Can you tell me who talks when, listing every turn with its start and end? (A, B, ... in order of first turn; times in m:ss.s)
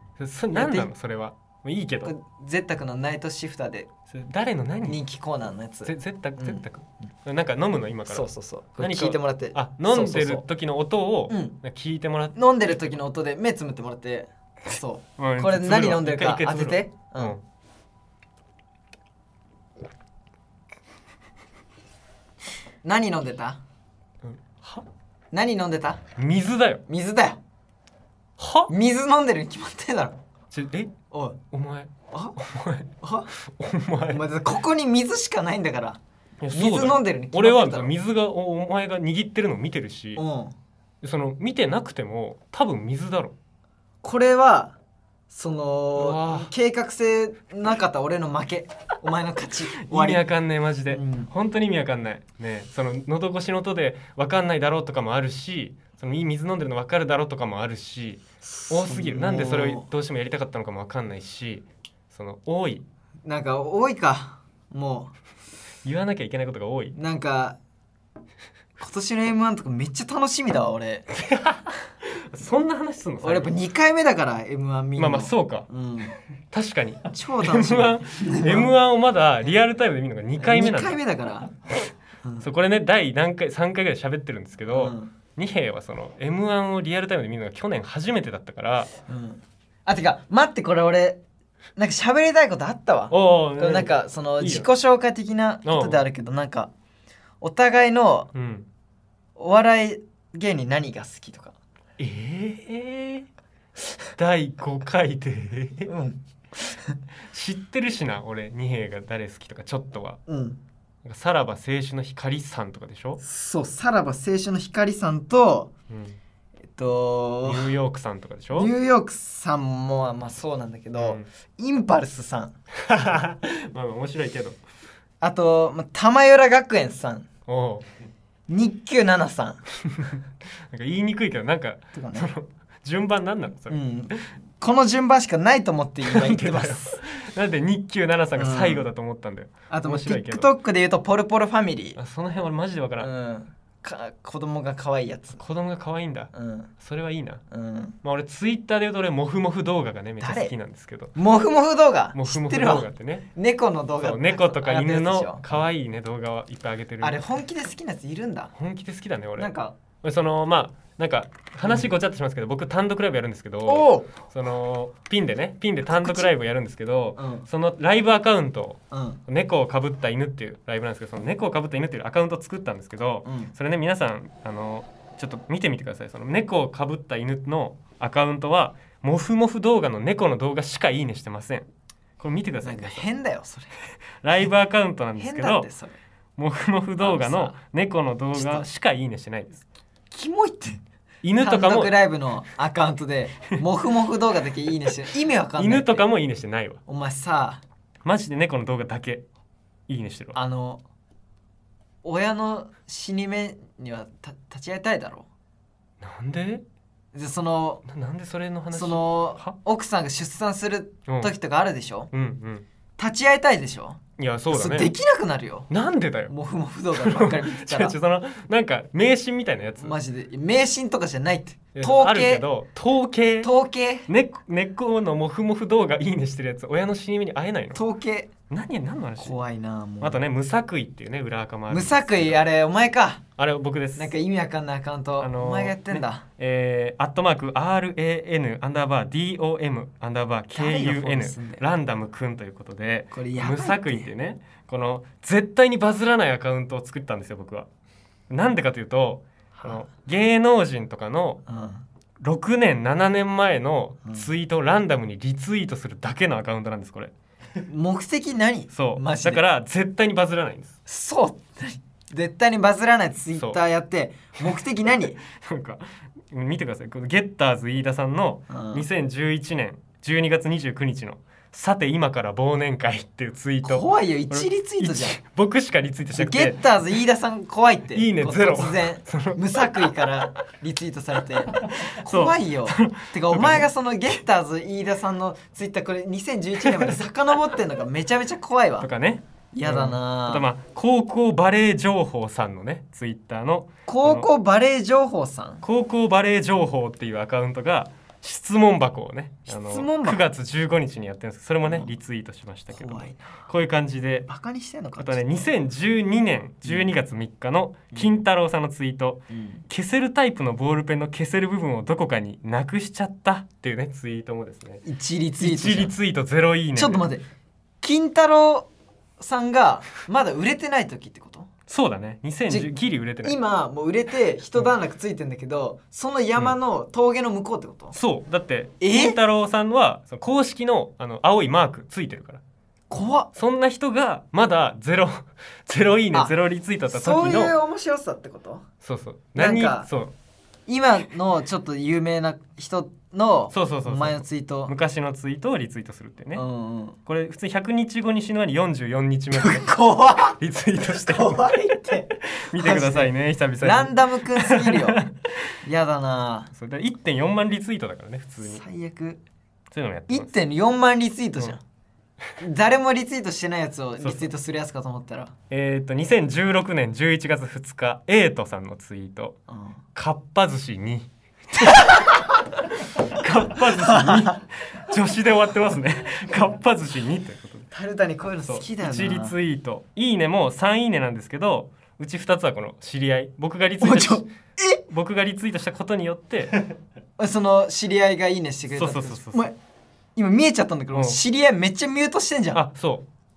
0:00.2-0:02.1 A
0:00.5-0:00.9 B
0:02.0-0:03.9 B
0:04.1-0:05.0 A
0:04.9-0:06.6 B
0:05.8-0:13.0 A
0:08.1-0:10.4 B
0:11.3-0:11.6 B
0:12.3-0:17.3 B
0:14.8-0:17.4 A
0:22.8-0:23.6 B
0:24.2-0:24.8 A
0:25.3-0:26.0 B
0:26.2-0:26.8 A
0:26.9-0:27.4 B
0:28.4-0:28.7 A
0:28.7-0:30.2 B
0:30.5-0:30.9 A
0:31.1-0:31.4 B
0:31.5-0:32.9 A
0:32.1-0:32.4 B
0:33.0-0:33.3 B
0:33.6-0:34.2 A
0:34.1-0:36.0 B
0:36.4-0:40.2 A
0:36.5-0:37.9 B
0:40.2-0:40.5 B
0:41.0-0:43.3 A
0:44.0-0:44.8 B
0:45.3-0:50.2 B
0:46.0-0:46.5 A
0:49.8-1:02.8 A
0:50.9-0:51.3 B
0:58.5-0:59.9 B
1:03.2-1:05.1 B
1:05.8-1:07.0 A
1:06.9-1:07.6 B
1:08.8-1:11.1 B
1:11.1-1:13.5 A
1:13.2-1:16.1 B
1:15.0-1:15.7 A
1:16.5-1:21.0 A
1:17.1-1:18.7 B
1:20.4-1:21.5 B
1:22.4-1:28.9 A
1:24.7-1:25.1 B
1:29.1-1:31.2 B
1:31.8-1:36.7 B
1:33.1-1:34.7 A
1:35.6-1:36.0 A
1:37.4-1:38.3 B
1:38.3-1:38.7 A
1:39.4-1:41.6 B
1:42.0-1:43.3 A
1:44.2-1:45.9 A
1:45.8-1:47.0 B
1:47.3-1:50.2 A
1:50.3-1:50.6 B
1:51.0-1:53.2 A
1:53.2-1:55.7 B
1:55.9-1:56.2 A
1:56.8-1:57.7 B
1:57.4-1:58.7 A
1:58.5-2:02.5 B
2:01.0-2:01.3 A
2:02.9-2:04.6 A
2:05.2-2:07.3 B
2:07.5-2:07.8 A
2:08.5-2:09.6 B
2:09.9-2:10.2 A
2:10.7-2:14.2 A
2:11.9-2:12.3 B
2:13.7-2:17.0 B
2:16.0-2:20.5 A
2:18.4-2:18.8 B
2:19.7-2:22.0 B
2:22.0-2:23.1 A
2:23.0-2:25.4 B
2:25.3-2:27.4 A
2:26.3-2:26.7 B
2:27.5-2:28.0 B
2:28.0-2:31.1 A
2:30.2-2:30.5 B
2:31.1-2:35.4 B
2:32.1-2:33.3 A
2:34.0-2:37.2 A
2:37.0-2:38.5 B
2:38.5-2:39.5 A
2:39.4-2:39.7 B
2:40.0-3:01.6 A
2:41.6-2:41.9 B
2:43.6-2:44.1 B
2:46.0-2:46.3 B
2:47.2-2:47.4 B
2:48.9-2:49.2 B
2:53.2-2:53.5 B
3:02.2-3:03.0 A
3:02.6-3:03.7 B
3:04.2-3:05.7 A
3:05.2-3:06.0 B
3:06.4-3:09.6 A
3:07.0-3:07.5 B
3:08.3-3:08.7 B
3:10.1-3:10.8 B
3:11.2-3:12.0 A
3:11.4-3:16.0 B
3:15.6-3:16.8 A
3:16.9-3:17.6 B
3:18.0-3:19.2 A
3:19.9-3:20.4 A
3:20.3-3:20.8 B
3:22.0-3:25.3 B
3:26.0-3:26.6 A
3:27.1-3:27.8 B
3:27.8-3:29.5 A
3:28.7-3:32.1 B
3:31.1-3:31.3 A
3:32.1-3:32.6 A
3:33.0-3:34.0 B
3:34.2-3:34.9 A
3:34.5-3:35.7 B
3:35.7-3:36.3 A
3:36.3-3:38.0 B
3:37.0-3:40.0 A
3:39.8-3:42.4 B
3:41.7-3:43.5 A
3:43.4-3:44.1 B
3:44.1-3:47.8 A
3:47.7-3:48.3 B
3:48.5-3:49.4 A
3:49.2-3:50.2 B
3:50.0-3:52.4 A
3:51.7-3:53.2 B
3:53.4-3:54.1 A
3:54.0-3:56.2 B
3:55.2-4:07.7 A
4:00.5-4:01.6 B
4:03.1-4:04.1 B
4:08.3-4:11.4 A
4:09.6-4:09.8 B
4:11.5-4:11.8 B
4:12.2-4:17.1 A
4:17.7-4:19.4 B
4:18.7-4:20.8 A
4:20.9-4:25.2 B
4:24.4-4:36.6 A
4:28.5-4:28.8 B
4:33.6-4:35.2 B
4:36.1-4:48.9 B
4:37.9-4:39.9 A
4:41.4-4:43.7 A
4:46.6-4:47.0 A
4:48.8-4:54.3 A
4:49.5-4:50.5 B
4:53.9-4:55.6 B
4:55.6-5:04.3 A
4:59.5-5:00.2 B
5:02.7-5:03.4 B
5:04.3-5:05.2 B
5:05.0-5:14.8 A
5:09.3-5:09.6 B
5:14.8-5:15.9 B
5:15.4-5:17.0 A
5:16.7-5:17.2 B
5:17.8-5:21.5 B
5:21.7-5:23.4 A
5:23.2-5:28.0 B
5:27.9-5:32.4 A
5:28.8-5:29.2 B
5:32.9-5:33.3 B
5:33.3-5:37.5 A
5:36.9-5:38.6 B
5:38.8-5:40.1 A
5:39.3-5:39.9 B
5:40.7-5:44.7 B
5:43.5-5:46.4 A
5:46.3-5:47.0 B
5:47.0-5:49.8 A
5:49.3-5:55.0 B
5:50.3-5:51.5 A
5:52.1-5:55.1 A
5:55.6-5:56.5 B
5:56.5-5:58.6 A
5:58.4-5:59.2 B
5:59.7-6:00.3 A
6:00.1-6:01.6 B
6:02.4-6:05.3 B
6:04.0-6:04.3 A
6:05.5-6:09.4 A
6:09.5-6:09.8 B
6:09.9-6:12.4 A
6:13.0-6:17.7 A
6:13.9-6:14.4 B
6:17.7-6:19.3 B
6:18.5-6:24.2 A
6:23.8-6:24.8 B
6:24.9-6:26.6 A
6:27.2-6:29.5 B
6:28.7-6:29.5 A
6:30.2-6:32.6 B
6:30.9-6:31.2 A
6:32.5-6:33.0 A